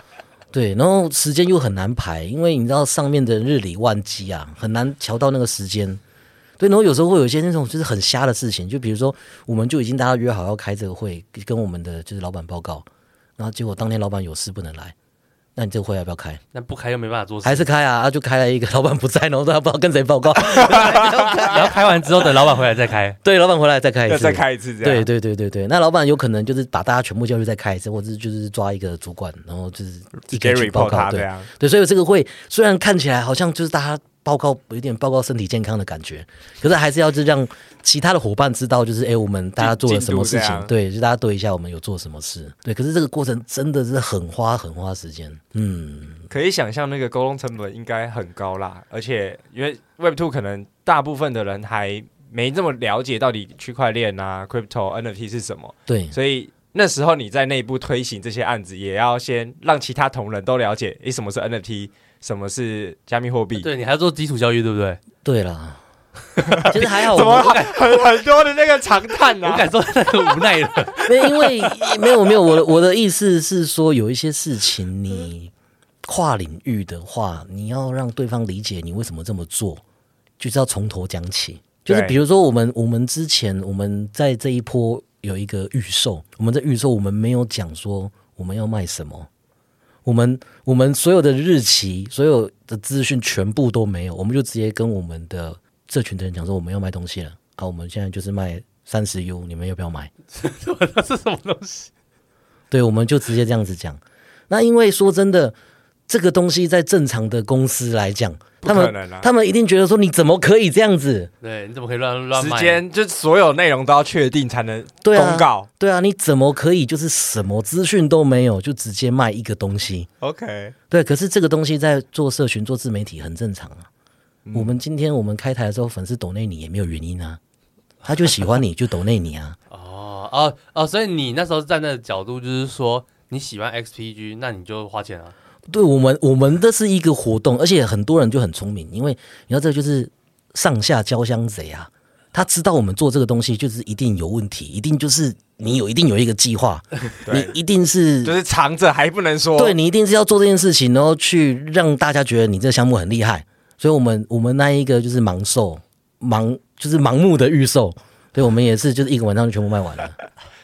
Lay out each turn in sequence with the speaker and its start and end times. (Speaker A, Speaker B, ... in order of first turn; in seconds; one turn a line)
Speaker A: 0.5-6.0
Speaker A: 6.6-12.9
Speaker A: 13.4-14.9
Speaker A: 15.6-16.4
Speaker B: 16.5-17.7
Speaker A: 17.4-21.8
Speaker C: 20.5-21.5
Speaker B: 21.1-23.2
Speaker A: 23.2-46.3
Speaker C: 24.1-25.1
Speaker C: 30.3-31.5
Speaker C: 39.6-40.7
Speaker C: 46.3-63.7
Speaker A: 55.9-56.1
Speaker B: 63.6-65.0
Speaker A: 65.2-65.8
Speaker B: 66.4-68.0
Speaker C: 66.6-69.7
Speaker A: 66.7-67.6
Speaker B: 69.4-71.1
Speaker A: 71.0-75.5
Speaker A: 76.0-79.8
Speaker A: 80.4-89.3
Speaker C: 81.9-82.2
Speaker A: 90.0-100.1
Speaker B: 100.3-101.9
Speaker A: 102.7-105.6
Speaker A: 106.1-111.3
Speaker C: 108.6-109.3
Speaker B: 111.4-112.8
Speaker C: 112.3-115.7
Speaker A: 115.0-120.1
Speaker C: 120.2-120.8
Speaker A: 120.9-123.9
Speaker C: 124.5-124.7
Speaker A: 124.5-127.4
Speaker A: 128.1-129.6
Speaker B: 129.7-135.3
Speaker A: 135.7-148.3
Speaker C: 147.3-147.5
Speaker C: 148.2-149.8
Speaker A: 149.6-160.2